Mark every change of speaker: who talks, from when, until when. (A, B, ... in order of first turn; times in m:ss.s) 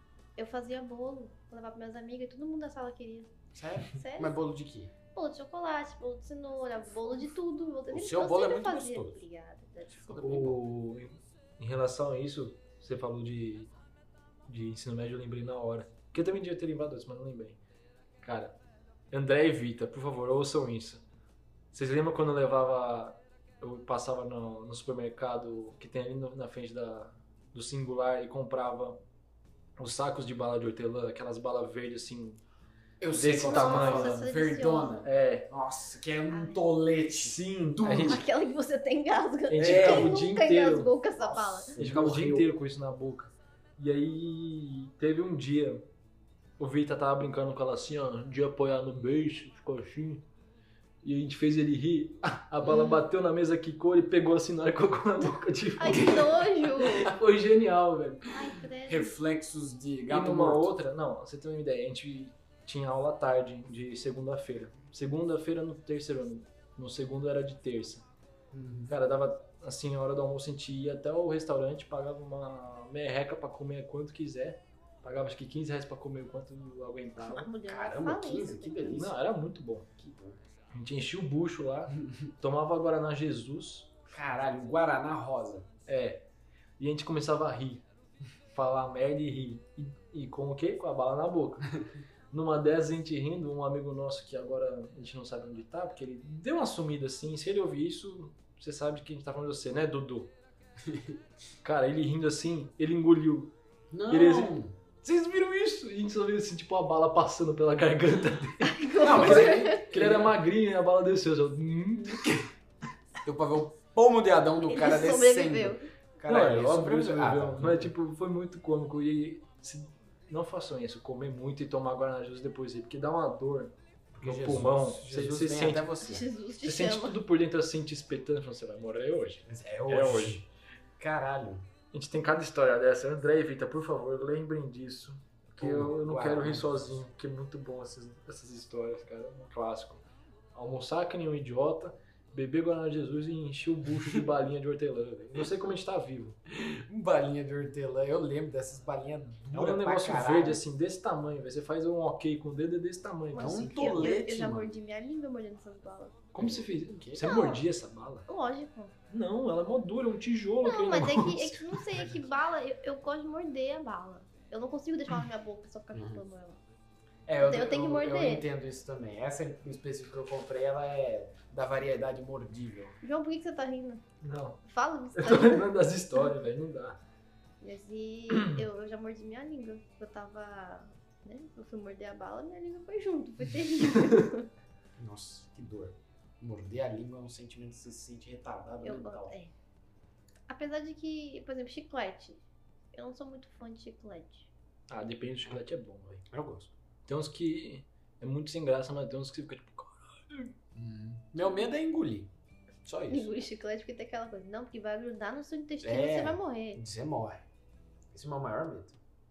0:00.4-0:03.3 A
0:03.5-0:04.9 B
0:03.9-0:04.4 A
0:05.1-0:10.4 A
0:07.9-0:09.2 B
0:10.0-0:10.6 B
0:10.1-0:13.7 C
0:14.5-0:17.6 C
0:18.2-0:18.6 C
0:19.1-0:21.0 C
0:21.7-0:29.0 C
0:29.8-0:32.4 C
0:33.0-0:38.2 B
0:33.1-0:34.2 C
0:33.4-0:35.0 A
0:35.0-0:35.5 C
0:36.3-0:36.6 A
0:37.1-0:38.2 C
0:37.9-0:41.8 A
0:39.5-0:40.9 C
0:39.6-0:40.2 B
0:41.2-0:42.5 B
0:41.8-0:45.8 C
0:46.6-0:50.2 C
0:51.0-0:58.4 C
0:52.7-0:52.9 A
0:55.8-0:57.1 A
0:58.3-0:59.1 A
0:58.8-1:00.7 B
1:00.1-1:08.0 C
1:08.5-1:09.0 B
1:08.9-1:17.5 C
1:17.2-1:19.0 A
1:17.6-1:19.2 B
1:19.0-1:19.9 C
1:20.0-1:20.4 B
1:20.7-1:23.9 C
1:24.1-1:25.7 B
1:25.9-1:26.2 C
1:26.8-1:27.8 C
1:28.5-1:31.8 C
1:32.3-1:40.3 C
1:40.8-1:41.2 B
1:41.6-1:43.5 C
1:43.9-1:44.7 B
1:44.1-1:52.4 C
1:48.6-1:49.8 A
1:49.0-1:50.3 B
1:53.2-1:57.9 B
1:54.7-1:55.8 A
1:56.3-2:05.9 C
2:04.1-2:06.3 B
2:06.0-2:07.2 A
2:06.6-2:10.5 C
2:09.4-2:10.4 B
2:11.0-2:11.7 B
2:11.9-2:20.0 C
2:15.6-2:17.0 B
2:20.5-2:26.4 C
2:26.5-2:30.6 B
2:29.5-2:34.0 C
2:33.3-2:36.2 A
2:33.3-2:34.8 B
2:36.3-2:38.2 C
2:36.4-2:37.3 B
2:37.2-2:37.6 A
2:38.3-2:38.9 A
2:39.1-2:42.0 C
2:40.6-2:46.6 A
2:45.9-2:46.2 B
2:47.3-2:53.0 B
2:47.4-2:48.4 A
2:53.0-2:54.0 A
2:54.2-2:54.6 C
2:54.6-2:55.7 A
2:55.2-2:57.0 C
2:57.6-3:04.5 A
2:58.3-2:58.6 C
3:05.0-3:09.4 B
3:08.8-3:09.5 A
3:10.5-3:12.4 A
3:12.9-3:14.5 A
3:14.9-3:16.2 C
3:16.3-3:16.7 B
3:17.1-3:20.5 C
3:20.7-3:22.3 B
3:22.8-3:23.3 B
3:23.1-3:26.8 A
3:25.8-3:27.4 B
3:28.1-3:29.0 B